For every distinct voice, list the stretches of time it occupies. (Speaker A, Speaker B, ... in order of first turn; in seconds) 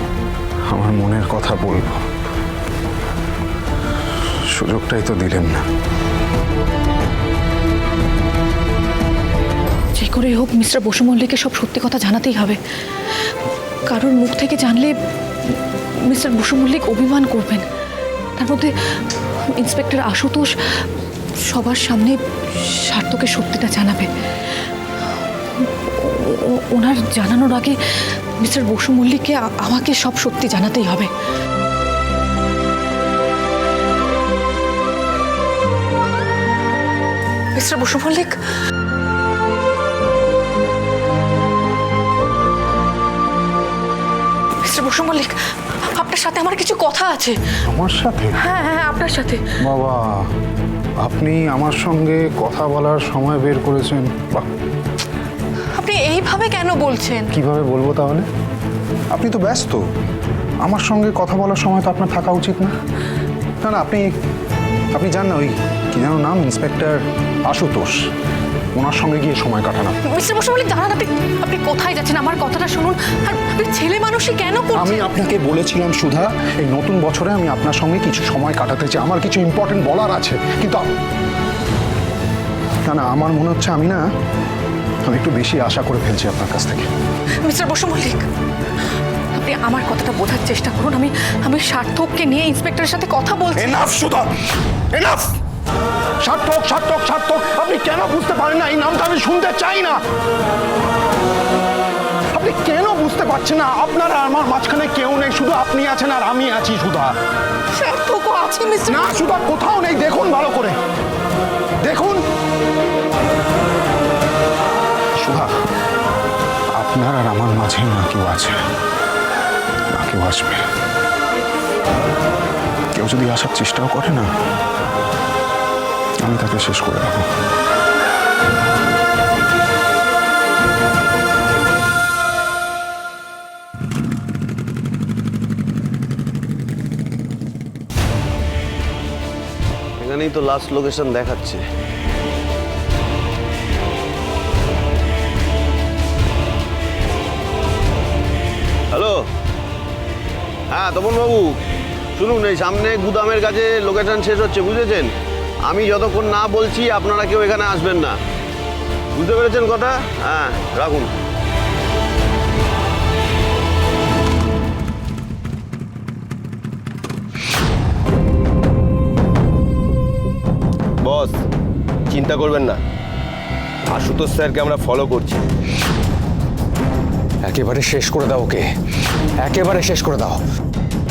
Speaker A: 0.7-2.0, 4.5-5.6, 47.7-48.4, 49.6-50.3, 51.0-54.5, 57.3-58.2, 59.1-59.8, 60.6-62.7, 63.6-64.1, 64.9-68.0, 68.7-70.0, 74.8-80.8, 82.8-84.0, 85.0-86.9, 93.5-94.3, 94.9-95.3, 96.2-100.0, 102.3-107.1, 108.9-110.8, 111.8-112.2, 115.2-115.5, 116.8-118.5, 119.9-120.6, 122.9-124.3, 126.2-127.3
Speaker B: 9.9-12.6, 13.9-17.7, 18.4-18.7, 19.4-20.5, 21.4-24.1, 25.6-27.8, 28.4-31.1, 37.5-38.4, 44.6-45.4, 45.9-47.4, 48.4-49.4, 55.7-57.3, 70.0-75.1, 87.4-88.2, 89.3-93.8, 107.7-109.1
Speaker C: 140.0-141.6, 148.9-149.2, 150.7-151.6, 152.2-155.1, 155.7-158.2, 159.2-161.1
Speaker D: 171.0-171.3, 172.1-172.8, 173.9-175.4
Speaker E: 177.5-178.6, 179.4-180.4